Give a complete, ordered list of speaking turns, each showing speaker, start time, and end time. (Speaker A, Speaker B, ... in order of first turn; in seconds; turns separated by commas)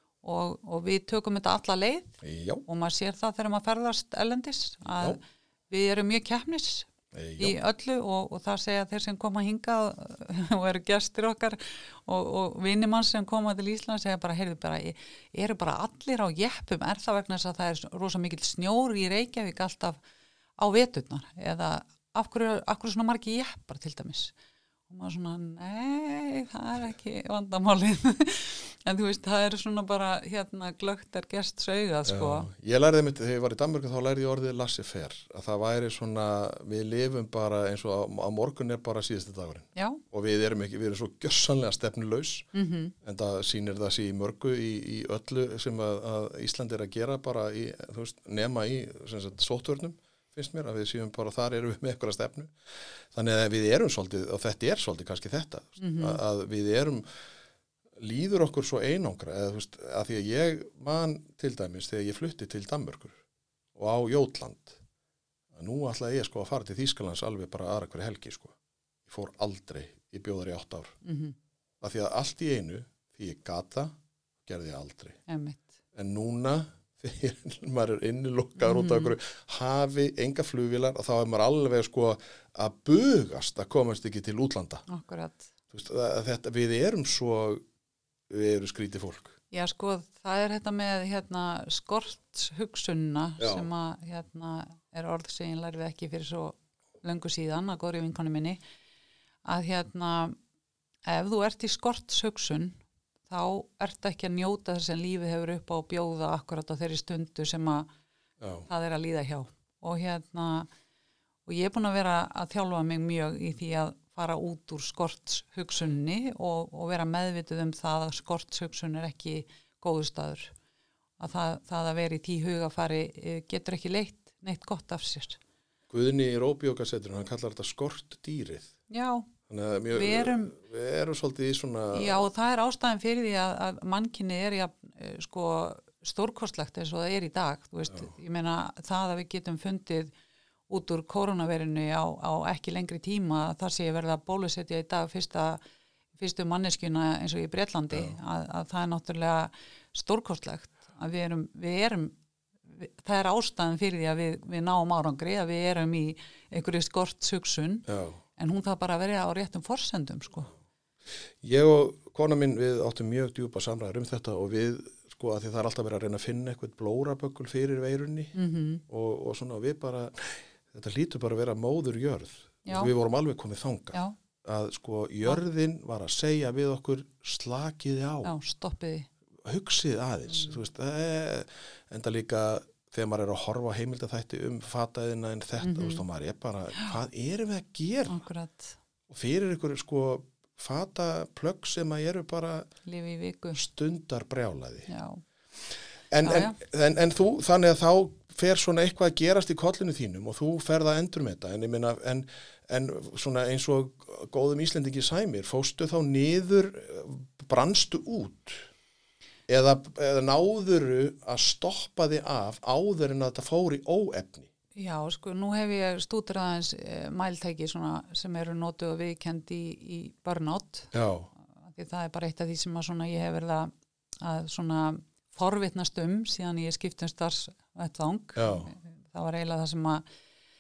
Speaker A: 0.2-20.0, Speaker B: 2.2-2.6, Speaker B: 7.1-7.6, Speaker A: 20.6-24.3, Speaker A: 24.9-32.5, Speaker B: 32.1-42.5, Speaker A: 39.8-40.0, Speaker A: 42.5-42.9, Speaker B: 43.0-57.0, Speaker A: 55.8-56.2, Speaker B: 58.0-63.2, Speaker B: 63.8-64.8, Speaker B: 65.5-68.5, Speaker B: 69.1-71.0, Speaker A: 71.0-71.4, Speaker B: 71.8-75.2, Speaker A: 75.3-75.7, Speaker B: 75.9-84.8, Speaker A: 78.6-79.1, Speaker A: 84.9-85.5, Speaker B: 85.7-87.6, Speaker B: 88.3-89.4, Speaker A: 89.5-98.6, Speaker B: 93.4-93.7, Speaker A: 99.5-100.4, Speaker A: 101.1-107.9, Speaker B: 108.4-108.7, Speaker A: 108.7-110.7, Speaker A: 111.5-120.5, Speaker A: 121.2-125.4, Speaker B: 125.9-128.7, Speaker A: 128.9-129.3, Speaker B: 129.5-132.3, Speaker A: 129.9-130.6, Speaker A: 131.9-140.1, Speaker A: 140.7-145.6, Speaker A: 146.2-152.2, Speaker A: 152.7-160.5, Speaker B: 157.9-158.2, Speaker B: 161.4-168.3, Speaker A: 168.3-168.8, Speaker B: 168.9-178.3, Speaker A: 172.7-172.9, Speaker A: 178.2-179.1, Speaker B: 179.4-188.2, Speaker A: 180.3-180.6, Speaker A: 185.6-186.0, Speaker A: 188.1-188.8, Speaker B: 189.1-192.7, Speaker A: 192.9-193.6, Speaker B: 193.5-194.9, Speaker A: 194.9-195.2, Speaker B: 196.1-208.7, Speaker A: 196.2-196.6, Speaker B: 209.5-214.5, Speaker A: 214.8-220.9, Speaker B: 220.9-221.3, Speaker A: 221.6-230.0, Speaker B: 228.4-228.7